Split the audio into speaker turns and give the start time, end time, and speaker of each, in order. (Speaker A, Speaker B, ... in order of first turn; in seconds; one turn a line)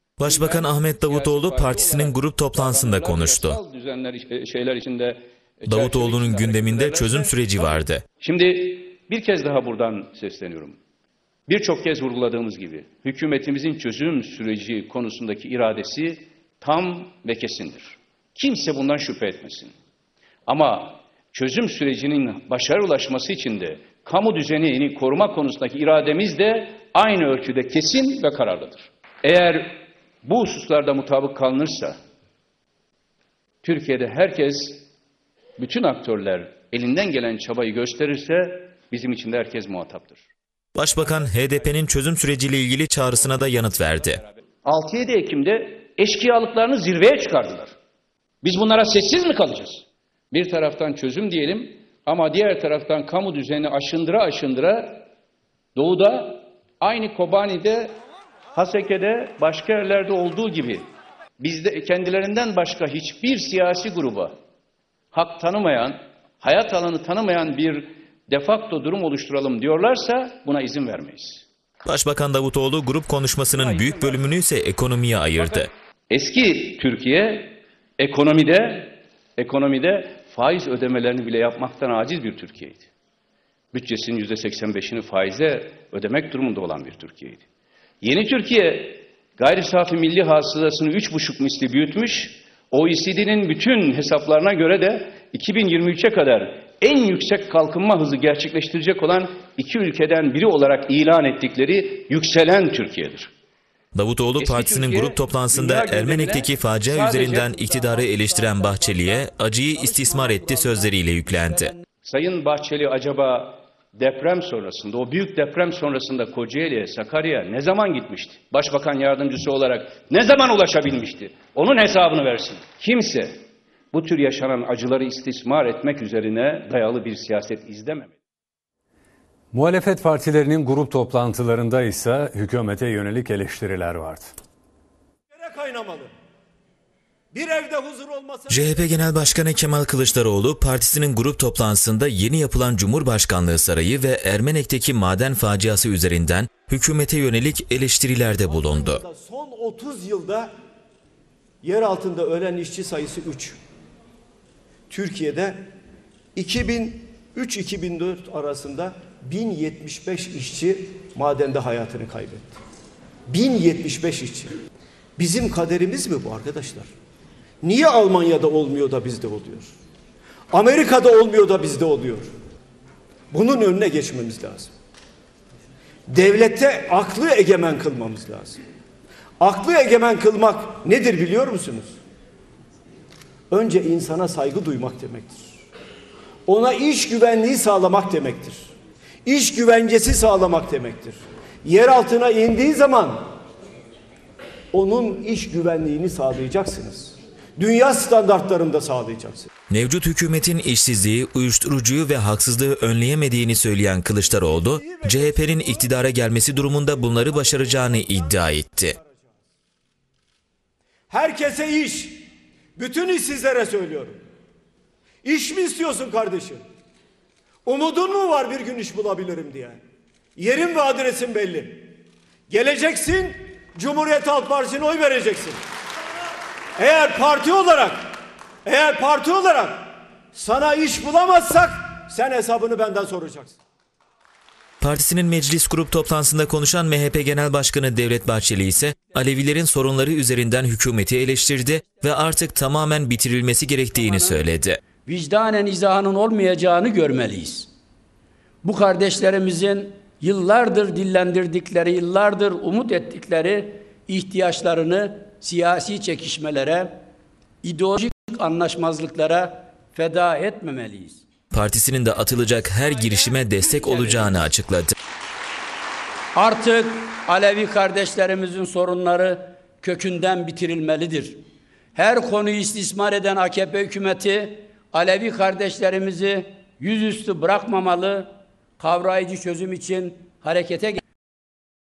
Speaker A: 0.2-3.6
Speaker B: 0.2-10.8
Speaker A: 5.7-8.0
Speaker B: 11.5-19.7
Speaker B: 20.5-31.9
Speaker B: 33.6-34.9
Speaker B: 35.6-40.2
Speaker A: 40.8-44.2
Speaker B: 43.9-47.7
Speaker B: 48.4-55.1
Speaker B: 55.8-57.9
Speaker B: 58.5-60.8
Speaker B: 61.4-64.3
Speaker B: 65.1-71.4
Speaker A: 71.8-75.7
Speaker B: 73.5-74.2
Speaker B: 76.1-82.9
Speaker B: 83.7-87.4
Speaker B: 88.0-103.3
Speaker A: 103.9-111.7
Speaker B: 104.4-109.2
Speaker C: 109.7-111.8
Speaker B: 112.0-123.3
Speaker B: 123.9-128.1
Speaker D: 129.5-134.3
Speaker E: 135.3-136.1
Speaker E: 137.3-139.0
Speaker A: 138.5-149.0
Speaker E: 148.4-150.5
Speaker E: 151.6-153.6
Speaker E: 154.9-155.6
Speaker E: 156.3-162.6
Speaker E: 163.3-164.5
Speaker E: 165.2-166.9
Speaker E: 167.6-169.7
Speaker E: 170.5-172.3
Speaker E: 173.3-174.7
Speaker E: 176.1-178.6
Speaker E: 179.4-182.0
Speaker E: 183.5-185.5
Speaker E: 186.5-188.7
Speaker E: 189.2-193.3
Speaker E: 194.7-199.5
Speaker A: 199.7-209.0
Speaker E: 204.3-209.4
Speaker E: 211.1-214.2
Speaker E: 215.2-216.6
Speaker E: 217.6-219.8
Speaker E: 220.4-221.9
Speaker E: 222.5-225.6
Speaker E: 226.8-233.6
Speaker A: 234.8-244.8
Speaker C: 243.9-244.4
Speaker C: 245.1-247.7
Speaker C: 248.6-257.0
Speaker C: 257.6-261.2
Speaker A: 261.5-264.9
Speaker C: 262.9-264.5
Speaker C: 266.3-271.4
Speaker C: 271.9-281.0